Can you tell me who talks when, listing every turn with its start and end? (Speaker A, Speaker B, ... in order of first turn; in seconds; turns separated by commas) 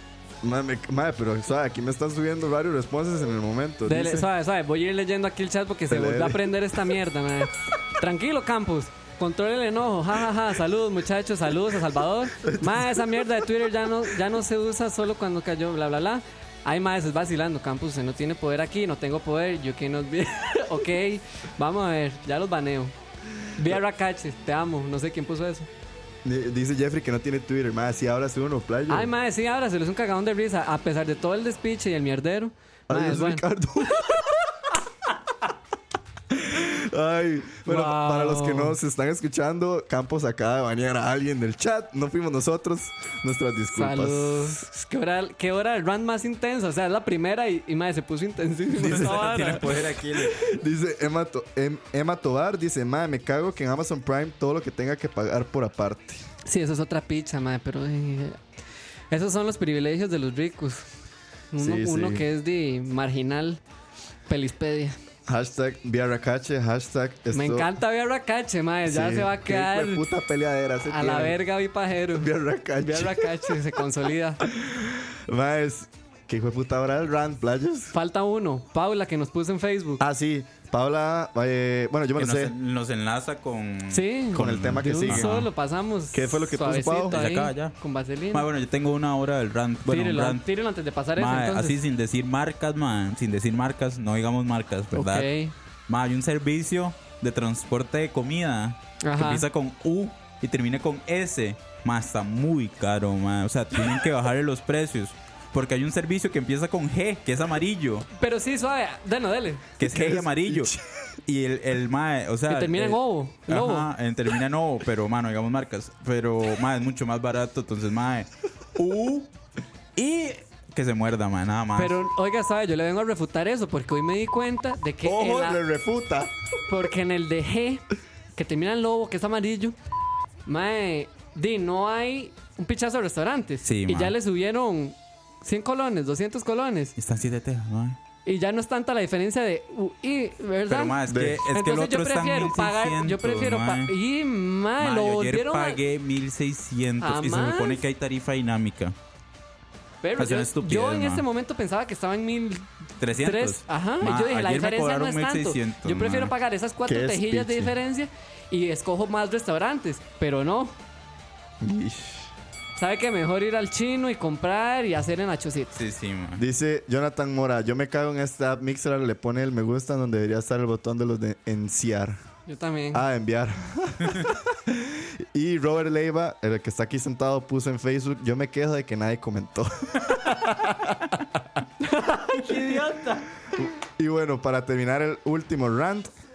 Speaker A: 0.4-4.3, Speaker B: 3.9-22.9, Speaker A: 5.9-6.6, Speaker A: 12.4-13.2, Speaker B: 23.5-25.7, Speaker A: 26.2-29.1, Speaker B: 28.9-33.5, Speaker A: 32.9-34.6, Speaker A: 36.3-44.6, Speaker B: 37.6-38.8, Speaker B: 43.7-49.7, Speaker A: 48.8-49.6, Speaker C: 48.8-50.4, Speaker A: 50.1-56.2, Speaker B: 56.4-58.4, Speaker B: 59.1-60.9, Speaker B: 61.5-63.6, Speaker A: 61.6-62.2, Speaker B: 64.3-65.0, Speaker A: 65.3-67.7, Speaker B: 67.3-70.0, Speaker A: 68.8-71.4, Speaker B: 70.8-74.4, Speaker A: 72.1-73.5, Speaker A: 74.4-77.9, Speaker B: 77.9-80.0, Speaker A: 80.0-82.5, Speaker C: 82.2-85.5, Speaker B: 83.9-88.5, Speaker A: 84.3-85.5, Speaker A: 86.1-87.2, Speaker C: 87.1-87.8, Speaker C: 88.3-90.5, Speaker B: 89.8-91.8, Speaker C: 91.2-95.3, Speaker B: 94.9-95.5, Speaker C: 95.9-108.1, Speaker B: 99.0-99.4, Speaker B: 108.2-109.7, Speaker C: 109.8-110.7, Speaker A: 109.8-110.8, Speaker C: 111.3-119.3, Speaker B: 112.5-113.9, Speaker C: 119.9-122.0, Speaker B: 121.7-125.6, Speaker A: 125.0-126.3, Speaker B: 126.7-127.8, Speaker B: 128.3-129.8, Speaker B: 130.4-136.9, Speaker C: 133.6-134.1, Speaker C: 137.0-138.0, Speaker B: 138.2-145.8, Speaker C: 140.7-143.9, Speaker A: 141.0-141.4, Speaker C: 144.8-148.9, Speaker B: 147.0-147.8, Speaker B: 150.0-160.8, Speaker C: 150.2-151.2, Speaker C: 153.0-156.3, Speaker A: 156.8-157.7, Speaker A: 161.6-162.3, Speaker B: 162.8-165.8, Speaker C: 165.7-166.4, Speaker A: 166.4-172.2, Speaker B: 172.5-173.0, Speaker A: 172.9-180.3, Speaker B: 180.2-180.9, Speaker B: 181.8-183.3, Speaker A: 183.5-186.1